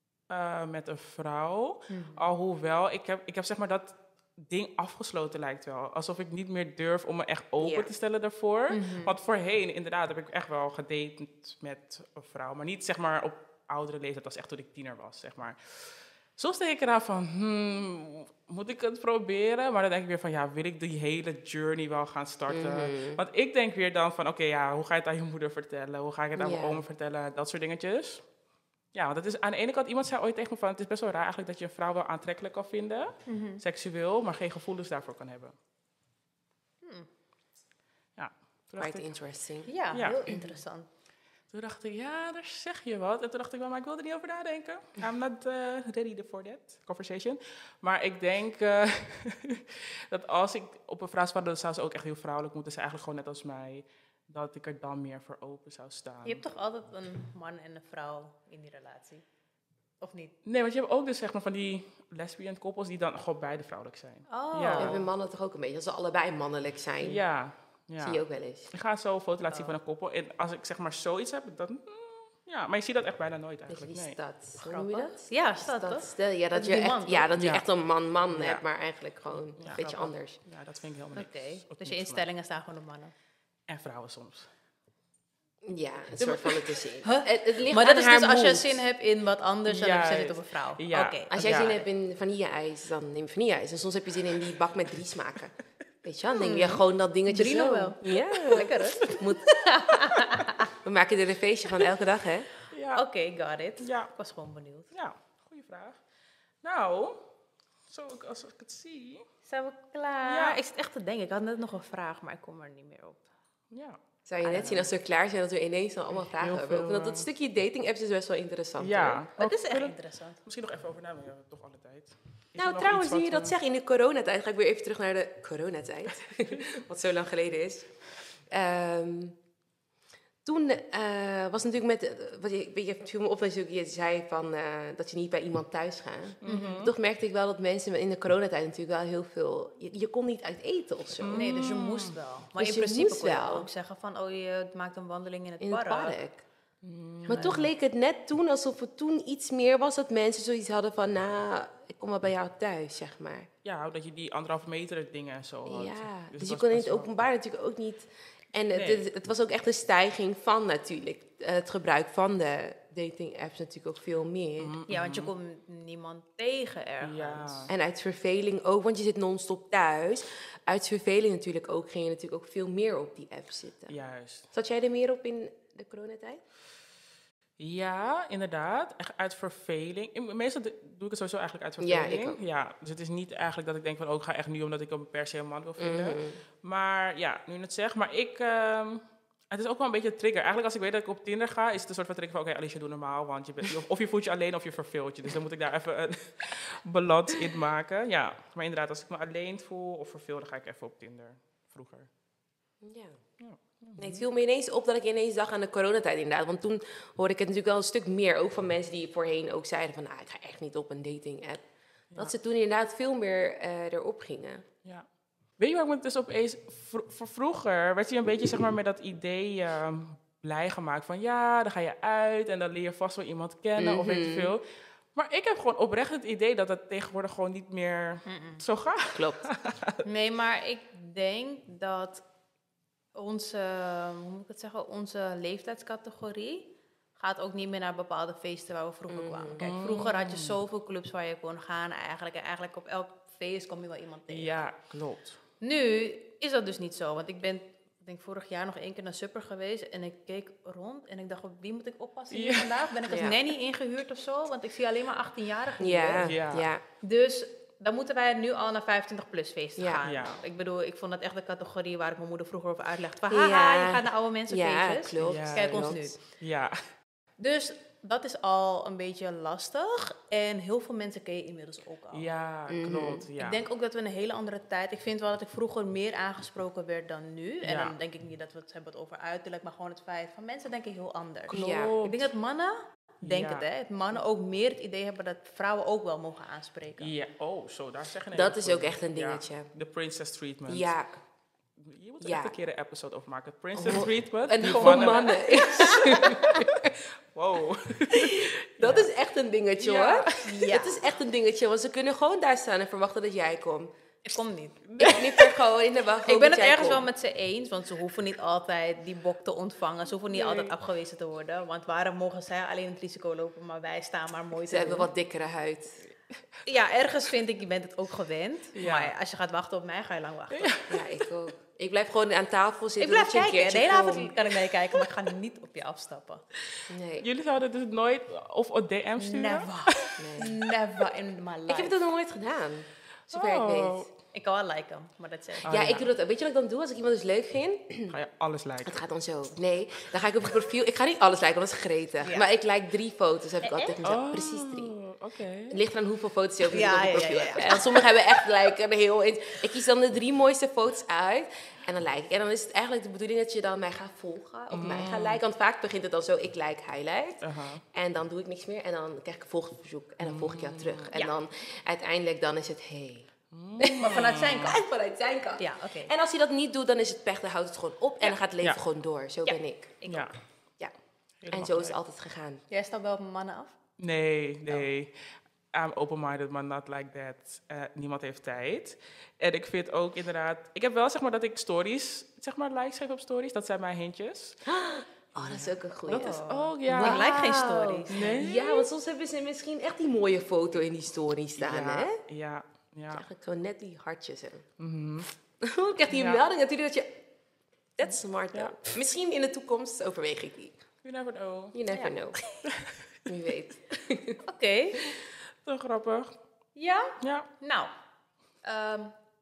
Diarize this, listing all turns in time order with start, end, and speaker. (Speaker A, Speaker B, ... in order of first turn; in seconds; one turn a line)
Speaker A: 0.3-28.2
Speaker B: 1.9-2.2
Speaker C: 7.6-7.9
Speaker B: 8.7-9.1
Speaker C: 22.5-23.2
Speaker C: 26.4-26.8
Speaker A: 28.9-35.5
Speaker B: 33.3-33.6
Speaker B: 36.8-37.1
Speaker A: 38.2-39.1
Speaker C: 38.8-39.7
Speaker B: 39.6-40.9
Speaker A: 39.9-40.5
Speaker A: 41.5-56.4
Speaker B: 56.2-59.2
Speaker B: 60.0-60.3
Speaker A: 60.4-65.0
Speaker B: 64.3-65.0
Speaker C: 64.7-67.2
Speaker A: 67.0-68.2
Speaker C: 68.0-68.7
Speaker A: 68.7-74.2
Speaker B: 69.5-69.7
Speaker C: 73.7-80.4
Speaker B: 74.6-77.3
Speaker A: 77.3-77.7
Speaker A: 78.3-78.6
Speaker A: 79.5-82.3
Speaker B: 81.1-83.1
Speaker A: 83.7-84.5
Speaker C: 85.6-88.8
Speaker A: 86.2-86.6
Speaker B: 87.0-91.7
Speaker A: 89.7-91.8
Speaker C: 91.3-99.6
Speaker B: 96.3-100.7
Speaker C: 100.7-102.5
Speaker A: 102.7-103.0
Speaker B: 102.9-104.9
Speaker A: 103.8-104.1
Speaker A: 104.9-106.0
Speaker A: 106.6-107.2
Speaker A: 107.9-109.2
Speaker B: 109.5-113.2
Speaker A: 110.2-110.6
Speaker A: 113.7-114.9
Speaker C: 114.3-119.2
Speaker A: 116.3-117.3
Speaker A: 118.8-123.5
Speaker B: 119.4-120.4
Speaker C: 122.5-127.9
Speaker C: 128.5-129.4
Speaker C: 130.4-141.5
Speaker A: 136.4-136.9
Speaker B: 136.4-136.8
Speaker A: 141.2-142.2
Speaker B: 141.3-146.2
Speaker C: 142.6-143.7
Speaker C: 145.6-146.4
Speaker A: 146.8-147.7
Speaker C: 147.3-153.5
Speaker A: 153.6-157.1
Speaker C: 155.7-164.8
Speaker A: 158.7-159.0
Speaker A: 164.6-165.3
Speaker B: 164.9-167.7
Speaker A: 167.0-167.7
Speaker C: 167.7-173.9
Speaker A: 173.9-174.5
Speaker C: 174.5-176.4
Speaker A: 177.6-202.1
Speaker C: 181.8-182.4
Speaker C: 185.8-186.4
Speaker C: 202.8-203.2
Speaker A: 203.4-204.2
Speaker C: 204.0-211.6
Speaker C: 212.2-214.6
Speaker A: 215.6-224.6
Speaker C: 223.8-224.5
Speaker A: 225.1-230.0
Speaker B: 228.3-228.6
Speaker C: 229.1-229.5
Speaker B: 230.0-232.2
Speaker B: 233.2-244.7
Speaker C: 239.1-239.7
Speaker A: 239.6-240.6
Speaker A: 244.3-245.4
Speaker B: 245.6-256.3
Speaker A: 252.3-252.9
Speaker C: 253.1-253.4
Speaker C: 255.8-256.8
Speaker A: 256.2-256.7
Speaker B: 257.0-266.2
Speaker C: 259.8-260.0
Speaker A: 260.0-260.4
Speaker C: 263.3-266.1
Speaker A: 265.2-266.8
Speaker B: 267.4-272.3
Speaker A: 272.1-273.6
Speaker C: 272.7-273.3
Speaker B: 273.4-287.1
Speaker A: 277.6-277.9
Speaker C: 281.5-282.0
Speaker A: 281.5-282.3
Speaker A: 283.2-283.6
Speaker A: 287.0-290.9
Speaker C: 288.3-289.7
Speaker C: 290.7-291.1
Speaker A: 291.8-296.7
Speaker C: 292.2-292.5
Speaker C: 293.8-297.0
Speaker B: 294.8-295.1
Speaker A: 297.3-299.1
Speaker C: 298.1-303.9
Speaker A: 299.8-300.5
Speaker B: 300.4-301.1
Speaker B: 304.2-305.2
Speaker A: 304.9-305.3
Speaker C: 305.0-307.1
Speaker B: 306.2-315.1
Speaker A: 310.2-310.7
Speaker C: 314.7-316.0
Speaker B: 316.6-320.7
Speaker A: 318.8-319.1
Speaker A: 320.5-321.0
Speaker C: 320.9-324.4
Speaker B: 323.0-326.4
Speaker A: 326.7-330.1
Speaker C: 326.9-327.3
Speaker B: 329.2-332.0
Speaker C: 330.2-330.6
Speaker C: 331.7-334.1
Speaker A: 333.3-334.1
Speaker B: 334.3-335.8
Speaker A: 335.6-336.1
Speaker C: 335.7-338.2
Speaker A: 338.1-339.0
Speaker C: 338.8-344.9
Speaker B: 342.2-342.5
Speaker B: 343.6-344.0
Speaker A: 344.0-345.8
Speaker C: 345.7-363.3
Speaker B: 346.7-348.2
Speaker A: 354.7-355.4
Speaker A: 357.4-357.8
Speaker A: 360.2-361.1
Speaker A: 363.5-364.8
Speaker C: 363.8-370.0
Speaker B: 364.0-364.8
Speaker B: 365.6-366.1
Speaker B: 369.4-370.3
Speaker A: 370.1-370.3
Speaker A: 371.4-372.0
Speaker C: 371.5-372.6
Speaker B: 372.7-373.8
Speaker A: 374.0-375.1
Speaker A: 375.7-384.6
Speaker C: 384.6-392.2
Speaker A: 385.4-387.3
Speaker B: 386.1-388.3
Speaker A: 388.1-388.9
Speaker A: 391.6-393.2
Speaker C: 393.1-394.6
Speaker A: 394.8-395.3
Speaker C: 395.6-397.2
Speaker A: 396.1-396.4
Speaker C: 397.9-400.8
Speaker A: 401.0-401.8
Speaker C: 401.7-402.4
Speaker A: 402.6-403.0
Speaker C: 403.3-404.4
Speaker B: 404.4-405.0
Speaker A: 405.6-406.3
Speaker B: 406.8-407.9
Speaker A: 407.2-407.5
Speaker B: 408.6-409.1